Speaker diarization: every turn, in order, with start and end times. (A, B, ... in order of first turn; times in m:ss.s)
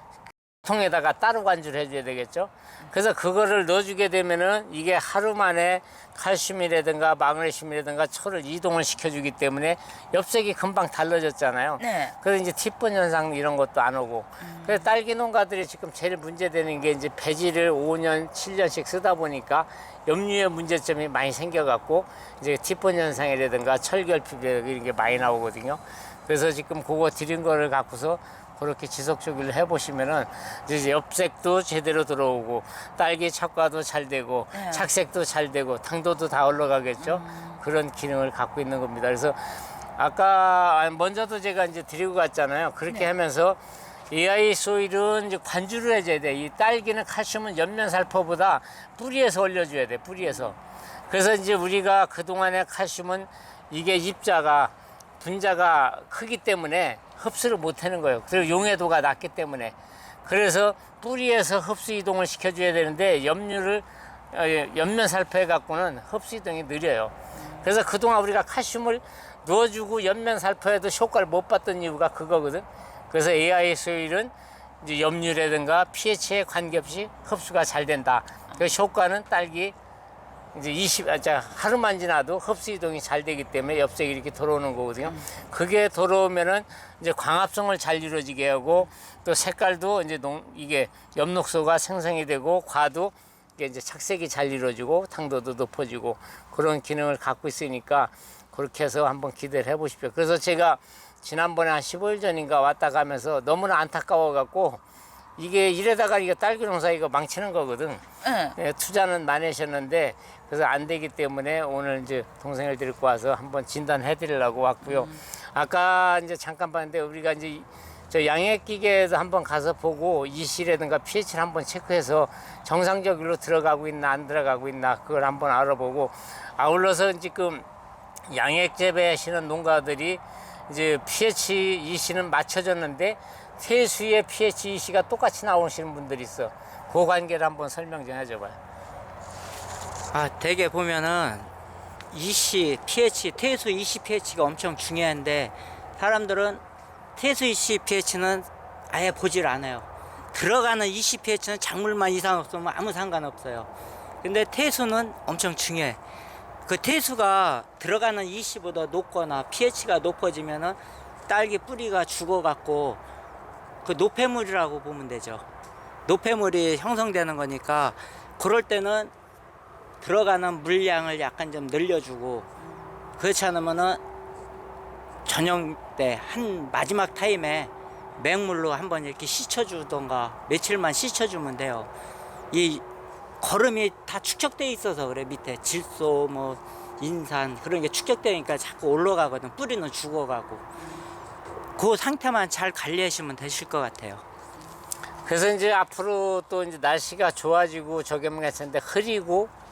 0:00.6-0:39.4 A
0:11.8-0:12.1 B
0:14.4-0:14.9 B
0:34.5-0:34.9 B
0:37.0-0:37.6 B
0:40.0-0:43.6 A
0:44.1-0:50.6 A
0:50.2-0:50.5 B
0:51.1-1:19.7 A
0:58.3-0:58.7 B
1:07.4-1:07.7 B
1:20.5-1:44.8 A
1:25.0-1:25.3 B
1:45.4-1:48.0 A
1:48.2-1:48.6 B
1:48.6-2:07.7 A
1:54.8-1:55.2 B
2:08.3-2:18.6 A
2:20.1-2:21.5 C
2:22.1-2:26.6 C
2:27.2-2:33.7 C
2:34.2-2:36.0 C
2:36.6-2:43.0 C
2:43.8-2:45.4 C
2:46.0-2:49.1 C
2:50.0-2:52.5 C
2:53.2-2:54.0 C
2:55.2-3:01.9 C
3:02.5-3:02.8 C
3:03.4-3:10.7 C
3:11.8-3:14.2 C
3:15.2-3:19.5 A